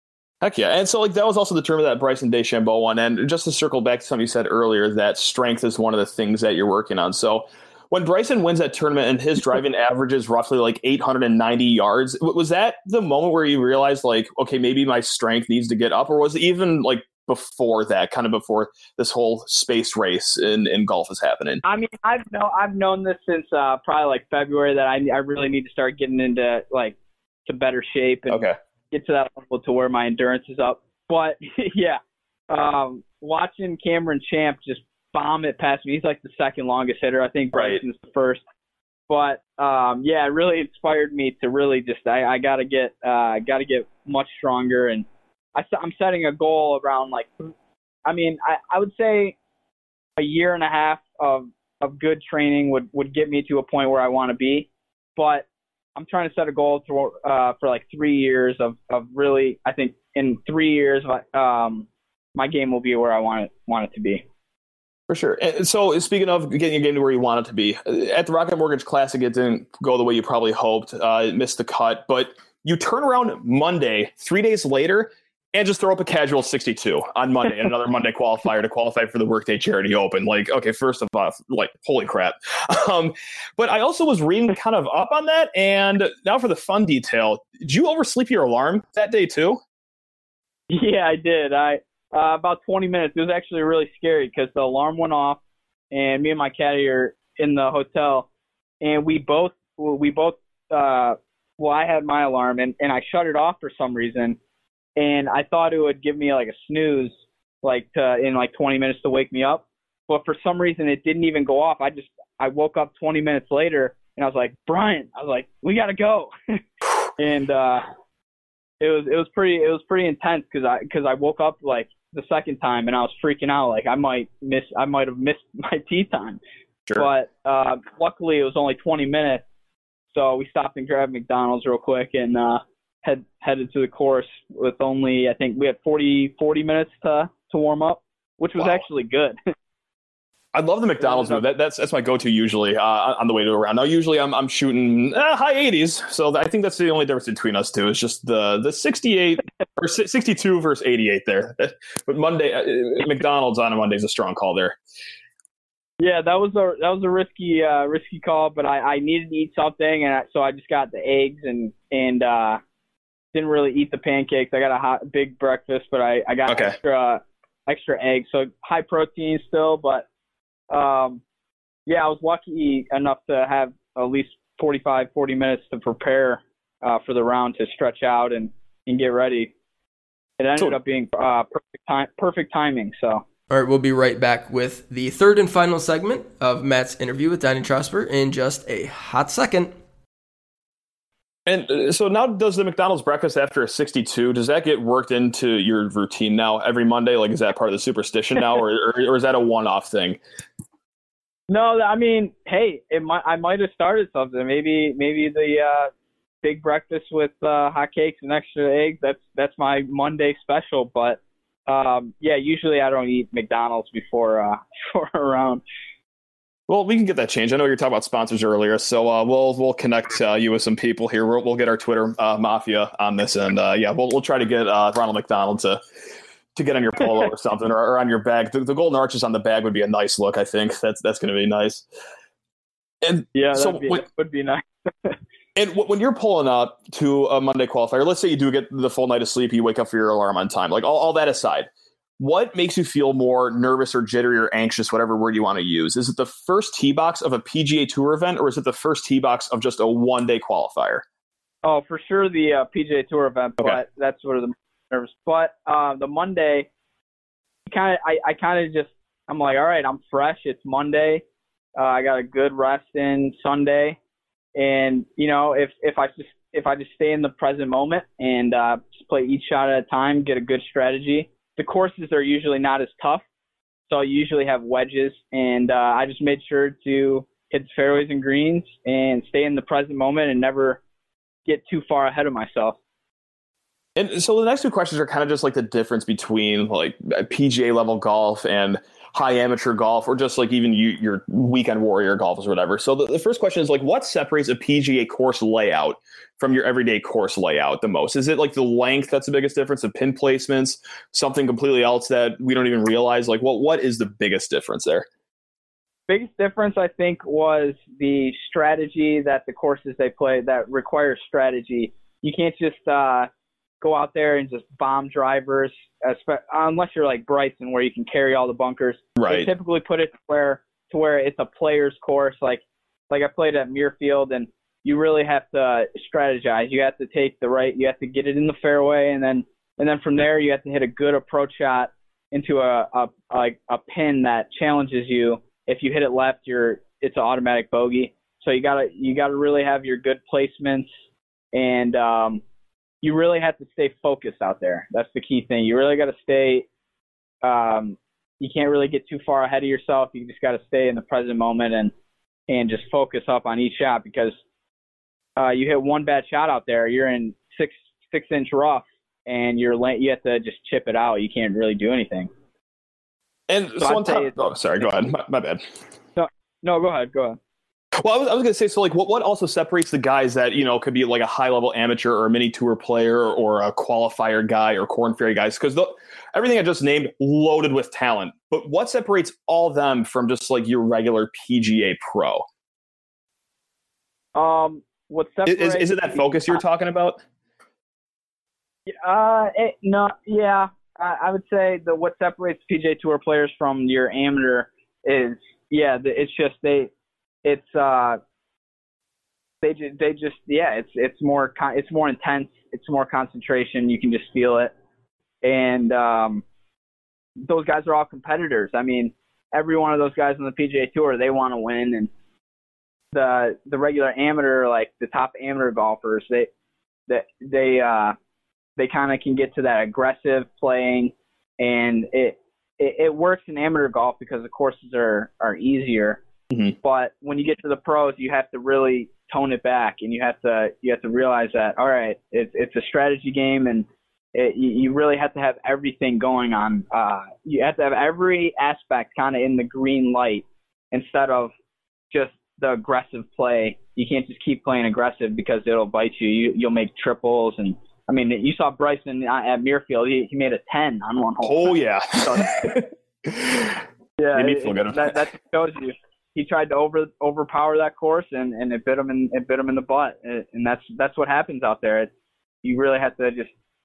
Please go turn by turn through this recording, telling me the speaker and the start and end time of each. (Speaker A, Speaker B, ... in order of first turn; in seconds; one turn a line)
Speaker A: 0.4-21.6
Speaker B: 21.6-38.4
Speaker A: 28.3-28.6
Speaker A: 37.5-37.8
Speaker B: 39.1-47.5
Speaker B: 48.0-49.4
Speaker B: 50.2-64.2
Speaker A: 65.1-89.6
Speaker B: 90.7-95.4
Speaker B: 95.9-98.3
Speaker B: 98.8-104.4
Speaker B: 105.0-116.6
Speaker B: 117.2-117.8
Speaker B: 118.8-126.4
Speaker B: 127.0-129.4
Speaker B: 130.1-139.4
Speaker A: 138.6-138.8
Speaker A: 140.5-154.8
Speaker B: 141.1-141.4
Speaker B: 156.0-162.6
Speaker B: 163.3-170.1
Speaker A: 166.5-166.8
Speaker B: 170.7-171.2
Speaker B: 171.9-179.5
Speaker B: 180.4-183.2
Speaker C: 183.5-189.7
Speaker A: 191.5-200.2
Speaker B: 201.5-205.9
Speaker B: 206.4-215.6
Speaker A: 216.7-225.8
Speaker A: 226.6-231.8
Speaker A: 233.0-234.0
Speaker B: 233.3-235.2
Speaker A: 235.6-251.0
Speaker B: 251.6-256.7
Speaker B: 257.7-261.2
Speaker B: 261.8-264.0
Speaker B: 264.6-273.2
Speaker B: 273.9-280.8
Speaker B: 281.5-282.8
Speaker A: 284.0-305.1
Speaker B: 306.1-313.3
Speaker B: 313.8-340.9
Speaker A: 319.2-319.5
Speaker B: 341.5-342.4
Speaker B: 343.0-346.7
Speaker B: 347.4-351.9
Speaker B: 352.5-354.4
Speaker B: 355.4-362.3
Speaker A: 363.5-365.6
Speaker B: 363.8-364.9
Speaker B: 366.2-367.4
Speaker A: 368.0-382.4
Speaker B: 384.4-386.6
Speaker A: 385.5-387.2
Speaker B: 388.9-396.9
Speaker B: 397.4-398.2
Speaker B: 399.6-404.7
Speaker B: 405.4-406.4
Speaker B: 407.4-412.1
Speaker B: 413.1-416.5
Speaker B: 417.1-418.1
Speaker B: 418.8-426.2
Speaker B: 426.8-441.5
Speaker B: 442.1-452.7
Speaker A: 451.4-453.8
Speaker B: 454.2-462.1
Speaker A: 454.3-455.2
Speaker B: 462.6-463.5